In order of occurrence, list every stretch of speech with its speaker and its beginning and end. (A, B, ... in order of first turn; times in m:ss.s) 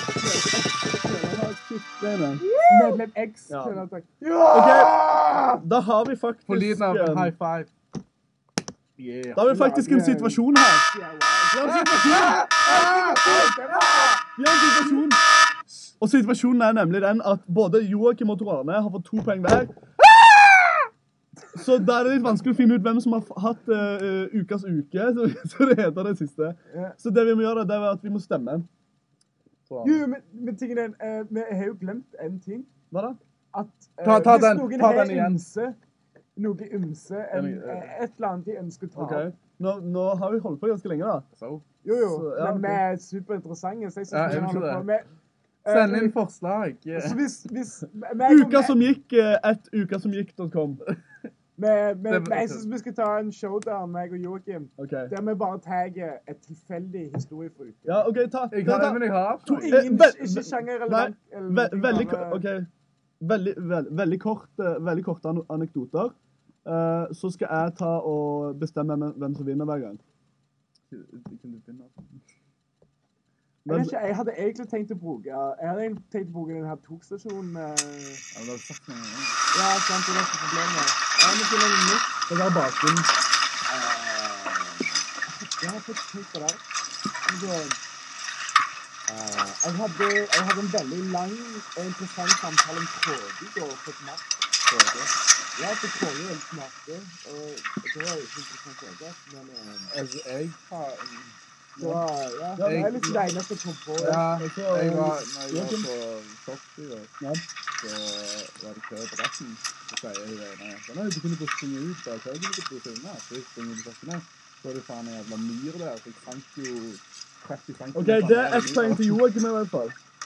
0:00.2-0:02.6 A
0:02.4-0:02.9 B
0:02.6-0:05.6 C
0:03.5-0:03.8 A
0:04.5-0:07.3 A
0:06.5-0:07.7 B
0:09.0-0:09.5 B
0:09.4-0:10.9 A
0:09.4-0:14.2 C
0:11.5-0:12.4 A
0:12.0-0:14.1 B
0:14.4-0:15.2 A
0:15.7-0:19.8 A
0:21.5-0:28.7 A
0:26.7-0:27.0 C
0:29.7-0:30.0 B
0:29.8-0:32.7 C
0:32.9-0:33.2 A
0:33.5-0:35.8 C
0:34.0-0:35.4 B
0:36.4-0:39.3 C
0:37.3-0:37.9 B
0:38.9-0:41.3 A
0:41.4-0:41.6 B
0:41.8-0:45.1 C
0:42.1-0:42.8 A
0:44.1-0:44.9 B
0:45.6-0:46.2 C
0:45.7-0:47.2 B
0:46.9-0:48.8 C
0:48.2-0:50.8 A
0:51.6-0:58.1 C
0:52.1-0:52.6 B
0:54.8-0:55.1 A
0:57.9-1:02.7 A
0:58.5-0:59.8 B
0:59.4-1:02.4 C
1:03.2-1:10.0 A
1:10.9-1:12.2 B
1:13.6-1:13.9 A
1:13.7-1:18.2 C
1:18.3-1:19.4 B
1:19.5-1:22.2 C
1:22.3-1:23.1 A
1:23.7-1:26.6 C
1:27.3-1:27.8 C
1:29.1-1:34.3 C
1:34.7-1:35.1 B
1:35.6-1:39.9 C
1:39.9-1:41.3 B
1:41.8-1:42.0 A
1:41.8-1:44.3 C
1:42.6-1:43.2 A
1:42.6-1:43.2 B
1:44.0-1:45.9 A
1:44.0-1:47.1 B
1:47.2-1:47.4 A
1:47.8-1:59.2 B
1:57.9-2:00.0 A